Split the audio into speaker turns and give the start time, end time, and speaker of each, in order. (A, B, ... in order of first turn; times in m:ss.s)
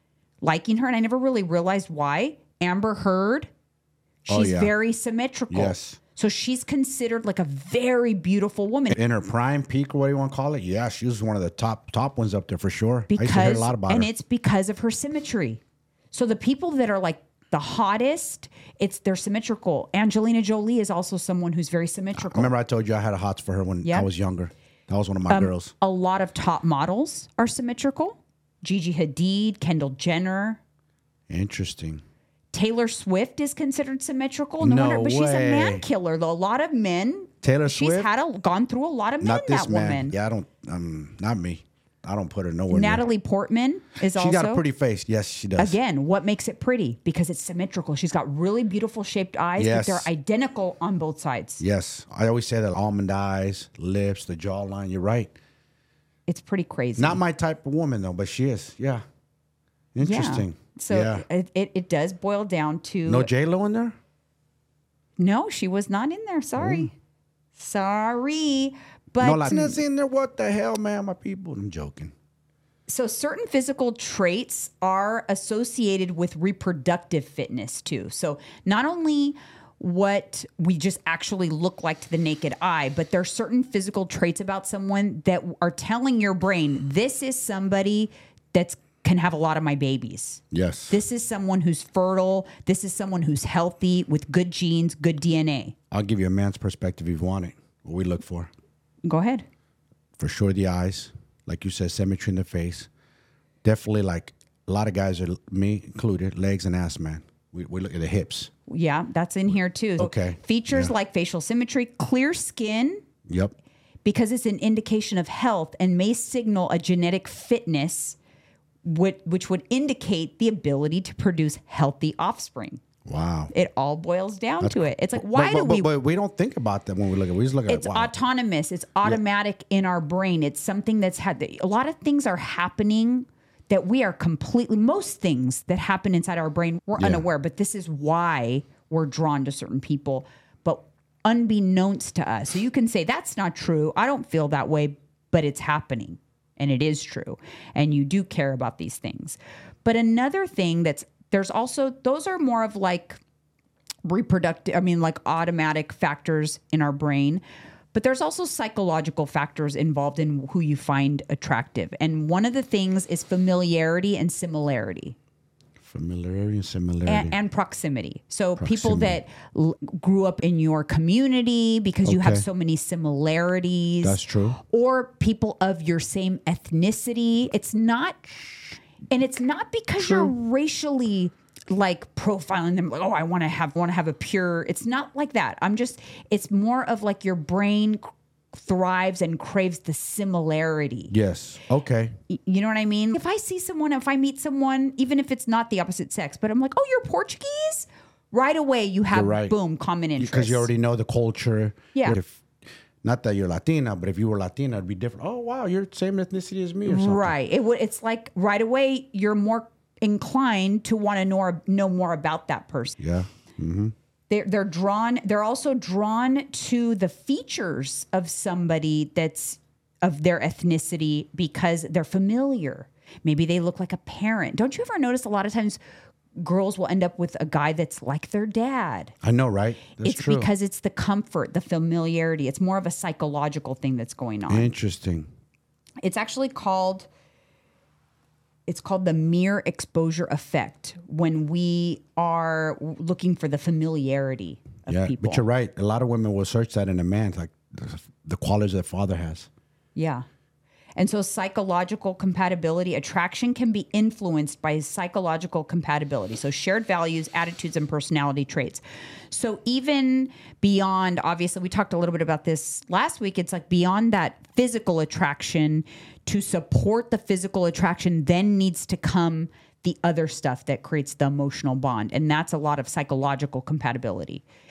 0:00.4-0:03.5 A
0:04.2-0:09.0 A
0:04.3-0:04.7 B
0:05.5-0:06.0 B
0:08.9-0:14.1 B
0:13.1-0:15.6 A
0:16.1-0:22.5 A
0:22.2-0:25.7 B
0:23.8-0:24.1 A
0:25.3-0:30.6 A
0:31.3-0:32.0 B
0:32.5-0:40.1 A
0:34.6-0:35.8 B
0:37.4-0:38.1 B
0:39.2-0:43.0 B
0:42.7-0:44.6 A
0:44.1-0:45.8 B
0:45.6-0:51.6 A
0:49.6-0:50.1 B
0:51.6-0:55.3 B
0:56.3-0:57.2 A
0:57.0-0:59.0 B
0:59.9-1:01.2 B
1:00.0-1:03.3 A
1:03.0-1:04.0 B
1:05.2-1:06.9 A
1:06.6-1:06.9 B
1:07.6-1:09.8 A
1:09.2-1:12.1 B
1:12.9-1:35.7 A
1:30.5-1:31.0 B
1:35.9-1:38.5 B
1:39.0-1:39.4 A
1:40.2-1:42.9 B
1:43.6-1:48.5 B
1:48.7-1:53.0 A
1:50.0-1:50.9 B
1:53.3-1:53.5 B
1:54.0-1:58.2 A
1:58.8-2:02.8 A
2:03.0-2:03.5 B
2:03.5-2:05.9 A
2:04.6-2:08.1 B
2:07.7-2:33.2 A
2:17.0-2:17.2 B
2:34.0-2:37.4 A
2:37.9-2:45.2 A
2:45.8-2:47.4 B
2:47.0-2:58.6 A
2:48.6-2:49.2 B
2:52.0-2:52.4 B
2:54.0-2:54.6 B
2:59.1-3:11.1 A
3:00.0-3:00.3 B
3:11.1-3:12.1 B
3:12.3-3:20.7 A
3:19.1-3:19.5 B
3:20.2-3:22.4 B
3:23.0-3:27.3 B
3:26.8-3:33.0 A
3:33.0-3:33.9 B
3:34.3-3:45.8 A
3:46.4-3:49.1 A
3:49.2-3:50.5 B
3:50.0-3:54.7 A
3:54.5-3:55.3 B
3:56.0-3:57.1 A
3:58.7-4:05.4 A
4:04.9-4:09.5 B
4:09.9-4:10.2 A
4:11.0-4:34.4 A